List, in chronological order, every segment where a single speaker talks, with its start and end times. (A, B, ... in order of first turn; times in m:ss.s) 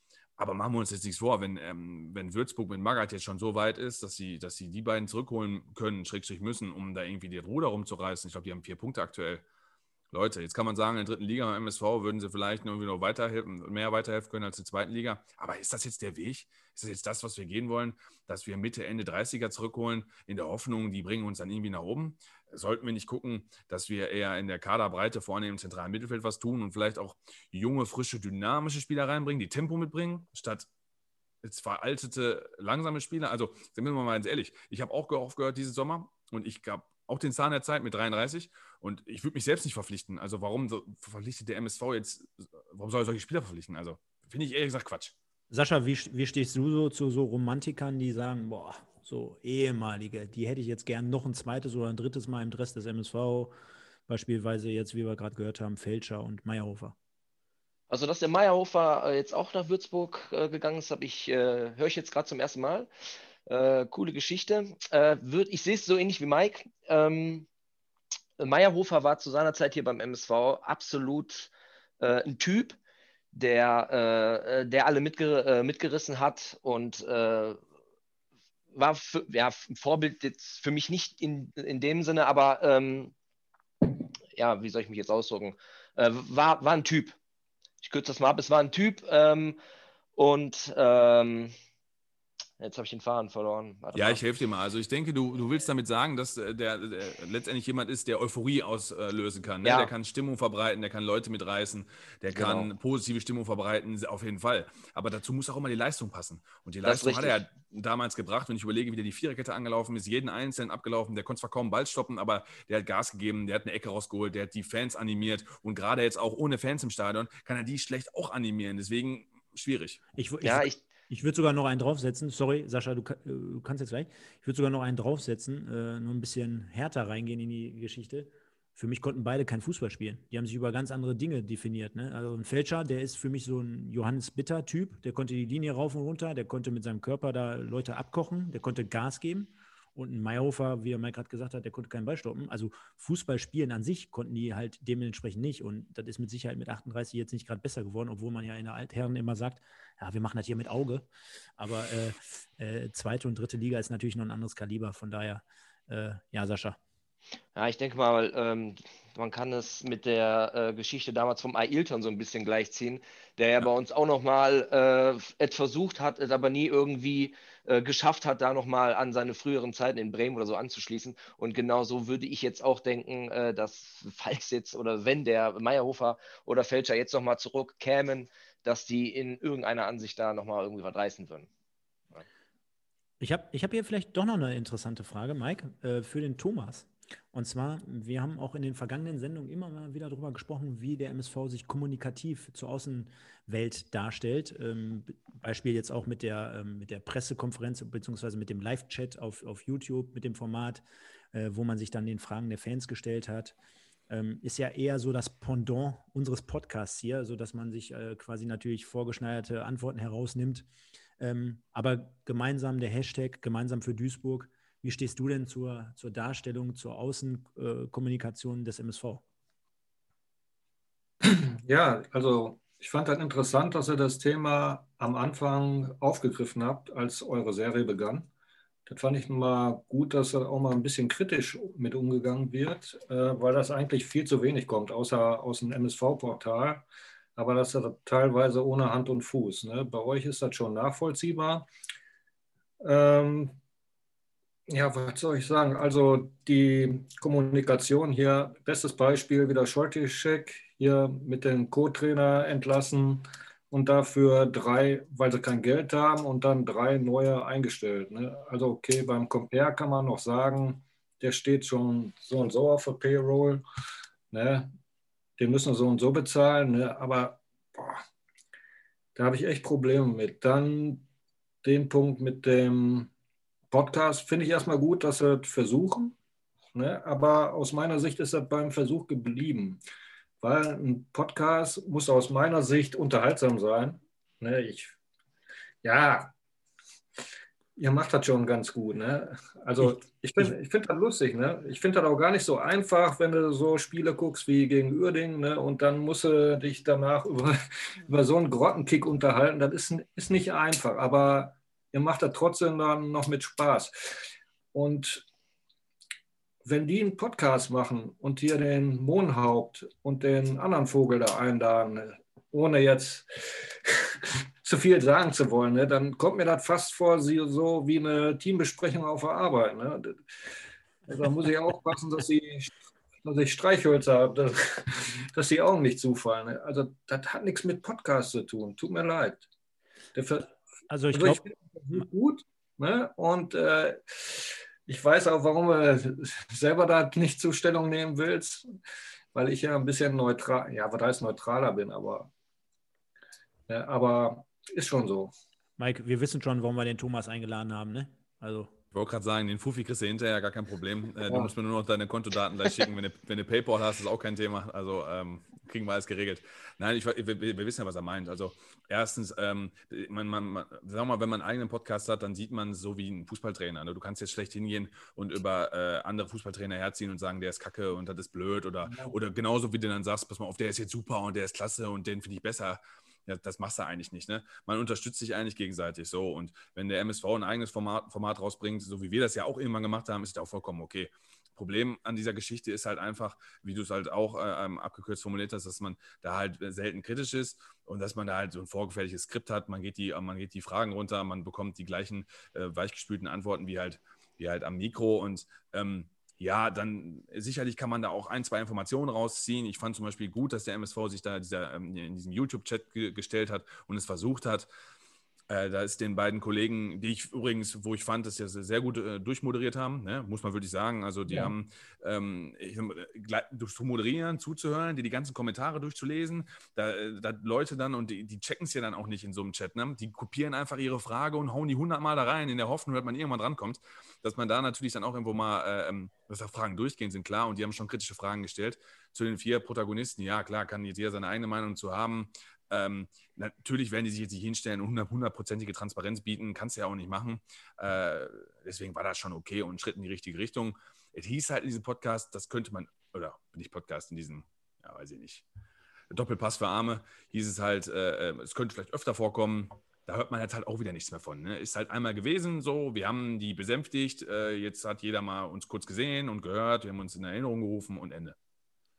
0:00.4-0:09.4 A
0:10.1-0:30.7 A
0:31.4-0:45.1 A
0:45.5-0:53.6 B
0:54.1-0:57.0 B
0:57.9-1:02.9 C
1:03.4-1:07.5 C
1:08.4-1:12.8 C
1:13.3-1:17.6 C
1:18.7-1:23.1 C
1:23.8-1:27.1 C
1:27.8-1:29.6 C
1:30.2-1:31.5 C
1:32.6-1:34.2 C
1:33.9-2:00.0 A
1:39.6-1:39.9 C
1:42.3-1:42.7 C
1:46.8-1:47.4 C
2:00.2-2:31.1 B
2:00.4-2:00.8 C
2:31.6-2:36.8 B
2:37.6-3:01.5 C
3:03.2-3:23.6 B
3:24.1-3:30.7 B
3:31.2-3:39.2 B
3:41.2-3:48.3 D
3:48.9-4:01.7 D
4:02.8-4:03.6 D
4:04.7-4:23.6 D
4:24.3-4:24.7 D
4:25.4-4:28.0 D
4:29.2-4:31.0 D
4:31.6-4:33.1 D
4:33.7-4:36.1 D
4:36.7-4:39.8 D
4:40.4-4:45.0 D
4:45.8-4:46.3 D
4:47.8-5:04.2 D
5:04.7-5:05.2 D
5:06.6-5:13.3 D
5:13.8-5:20.2 D
5:21.1-5:29.4 D
5:30.1-5:30.5 D
5:30.9-5:31.4 B
5:31.1-5:38.7 D
5:39.3-5:42.3 D
5:43.7-5:45.3 D
5:45.8-5:48.7 B
5:48.9-6:44.7 A
5:51.3-5:51.5 D
6:45.5-7:25.4 A
6:51.3-6:51.5 D
7:26.1-7:38.4 A